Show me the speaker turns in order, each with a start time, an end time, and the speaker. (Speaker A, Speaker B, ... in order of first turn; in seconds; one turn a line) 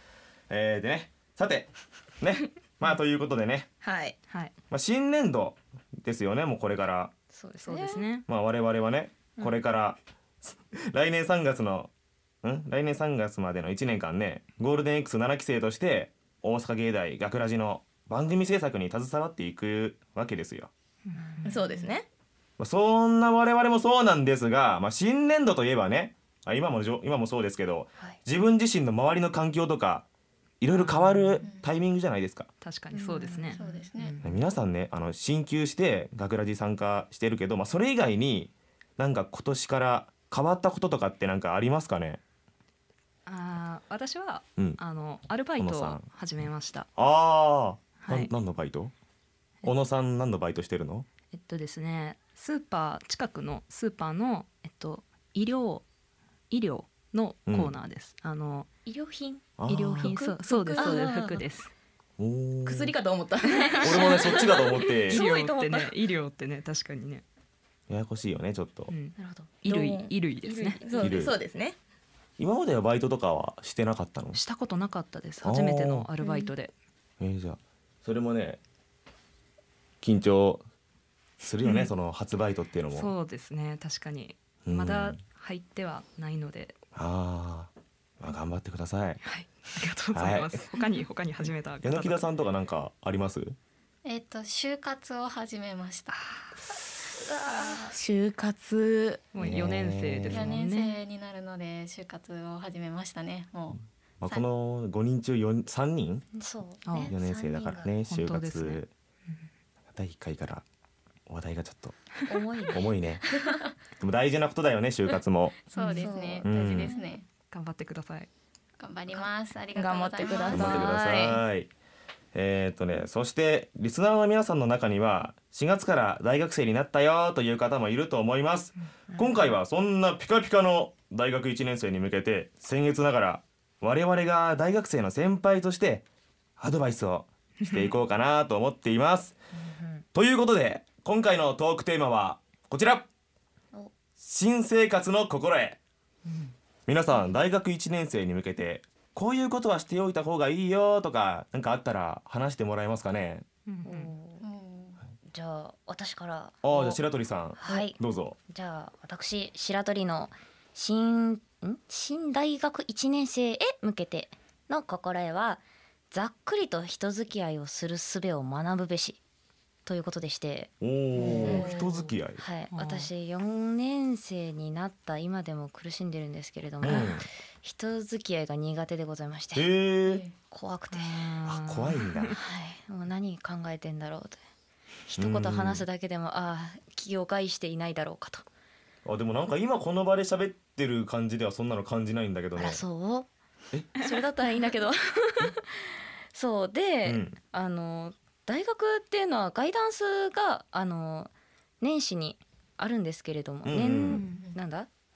Speaker A: 0.5-3.7
Speaker B: 3.8-4.2
Speaker A: 4.7-7.1
Speaker C: 7.3-8.1
Speaker D: 7.6-8.2
Speaker A: 8.3-11.9
Speaker A: 12.4-20.7
Speaker D: 21.1-21.7
Speaker B: 21.4-22.1
Speaker A: 22.6-30.1
Speaker A: 30.6-32.5
Speaker D: 30.7-31.4
Speaker E: 31.4-31.7
Speaker D: 32.6-34.3
Speaker C: 32.9-33.9
Speaker E: 33.5-34.2
Speaker A: 34.2-42.2
Speaker D: 43.3-46.9
Speaker A: 45.6-46.0
Speaker A: 47.0-48.9
Speaker D: 48.0-48.3
Speaker A: 49.6-51.1
Speaker D: 51.3-55.8
Speaker D: 56.5-58.7
Speaker C: 58.9-61.4
Speaker A: 59.6-60.1
Speaker D: 59.7-61.7
Speaker B: 60.5-60.9
Speaker A: 62.2-63.0
Speaker B: 62.6-63.9
Speaker D: 63.5-64.2
Speaker A: 63.8-65.2
Speaker C: 64.0-65.9
Speaker D: 65.0-67.2
Speaker A: 67.9-68.9
Speaker D: 68.9-70.8
Speaker C: 69.2-69.5
Speaker B: 69.7-71.8
Speaker A: 71.0-71.4
Speaker A: 72.4-74.4
Speaker D: 74.3-76.7
Speaker A: 75.4-76.1
Speaker C: 76.2-76.5
Speaker A: 77.2-78.6
Speaker A: 80.0-80.6
Speaker A: 81.4-83.1
Speaker D: 81.6-81.9
Speaker D: 82.9-86.8
Speaker A: 84.7-85.2
Speaker A: 86.9-89.2
Speaker D: 89.2-92.2
Speaker A: 90.1-90.6
Speaker A: 91.8-93.6
Speaker E: 94.0-96.2
Speaker C: 97.2-97.9
Speaker B: 97.9-99.2
Speaker D: 99.3-101.0
Speaker A: 99.4-100.6
Speaker E: 100.3-104.5
Speaker A: 104.2-106.2
Speaker C: 106.3-108.0
Speaker D: 106.9-107.1
Speaker A: 107.0-108.9
Speaker D: 108.1-108.8
Speaker A: 109.9-110.6
Speaker A: 111.3-112.0
Speaker C: 112.3-112.9
Speaker A: 112.7-113.2
Speaker A: 114.0-115.6
Speaker E: 115.7-117.2
Speaker C: 115.8-117.1
Speaker A: 116.4-116.9
Speaker D: 117.5-118.3
Speaker E: 118.8-121.0
Speaker B: 119.8-121.4
Speaker A: 120.5-121.7
Speaker A: 122.3-136.1
Speaker A: 136.6-139.4
Speaker C: 139.6-140.0
Speaker A: 140.1-143.1
Speaker A: 144.2-145.8
Speaker D: 146.3-146.5
Speaker A: 146.9-153.4
Speaker D: 153.7-154.1
Speaker C: 153.8-154.4
Speaker E: 154.4-155.0
Speaker C: 155.2-157.0
Speaker A: 156.6-158.4
Speaker C: 157.6-158.0
Speaker C: 158.5-169.2
Speaker C: 169.9-171.7
Speaker A: 170.8-172.4
Speaker E: 171.2-171.9
Speaker D: 171.3-172.0
Speaker C: 172.4-179.7
Speaker D: 172.7-173.1
Speaker A: 176.8-177.2
Speaker D: 176.8-177.1
Speaker A: 179.6-180.3
Speaker E: 180.1-180.3
Speaker C: 180.5-181.3
Speaker D: 180.9-182.3
Speaker A: 181.5-182.4
Speaker C: 182.3-184.4
Speaker C: 185.1-188.4
Speaker A: 185.2-185.8
Speaker A: 189.1-192.8
Speaker C: 192.6-193.3
Speaker C: 194.0-195.5
Speaker C: 196.3-204.9
Speaker A: 197.1-197.4
Speaker A: 203.7-204.2
Speaker D: 204.1-204.4